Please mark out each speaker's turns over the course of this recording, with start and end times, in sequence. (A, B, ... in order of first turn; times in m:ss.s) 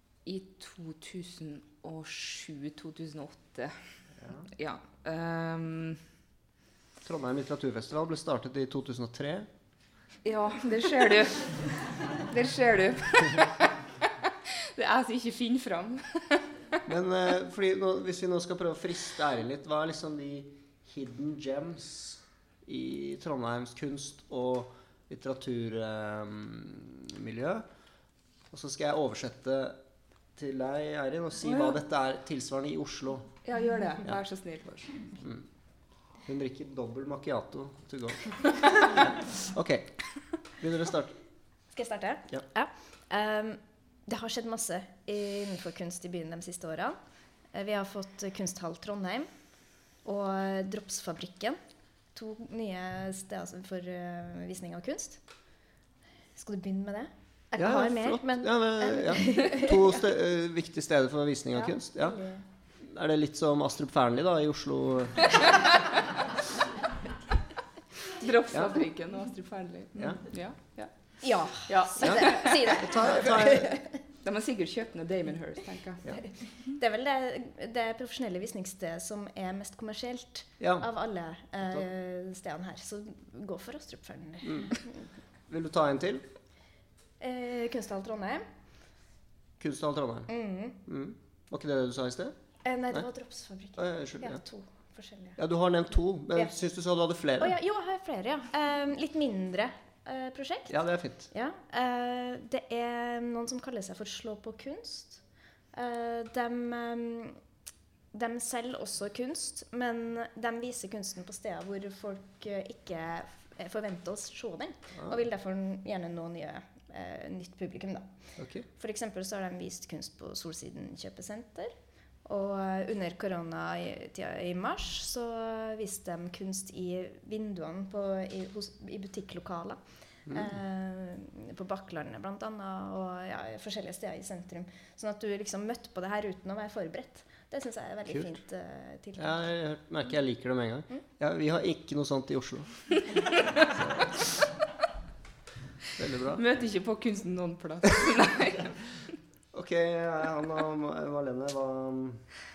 0:00.2-0:06.0 A
0:04.2-0:04.5 B
0:07.0-0:09.5 B
0:10.2-0:11.7 A
0:12.3-0:14.1 A
0:14.8-0:16.8 A
0:16.9-0:27.7 B
0:28.5-0:29.8 B
0:30.4-0:33.3 B
0:31.4-0:31.8 A
0:33.4-0:35.2 A
0:35.2-0:35.5 B
0:36.2-0:41.2 B
0:41.7-0:51.6 C
0:52.1-0:55.2 C
0:56.4-1:00.1 C
0:57.6-1:02.2 B
1:01.5-1:02.4 C
1:02.8-1:05.6 B
1:08.2-1:16.4 A
1:08.5-1:08.8 B
1:10.0-1:10.3 B
1:11.2-1:13.9 C
1:12.0-1:13.7 B
1:16.7-1:24.9 C
1:20.6-1:20.9 B
1:24.4-1:24.7 B
1:25.5-1:26.3 B
1:27.2-1:28.4 C
1:29.6-1:30.3 B
1:30.3-1:30.8 C
1:30.8-1:32.4 B
1:32.6-1:35.4 C
1:33.8-1:34.4 B
1:35.4-1:37.6 B
1:37.4-1:47.4 C
1:40.7-1:41.3 B
1:48.1-2:19.5 C
1:58.4-1:58.6 B
2:10.3-2:10.5 B
2:19.2-2:23.0 B
2:23.7-2:24.2 B
2:26.0-2:26.4 B
2:26.3-2:29.0 A
2:29.5-2:32.3 B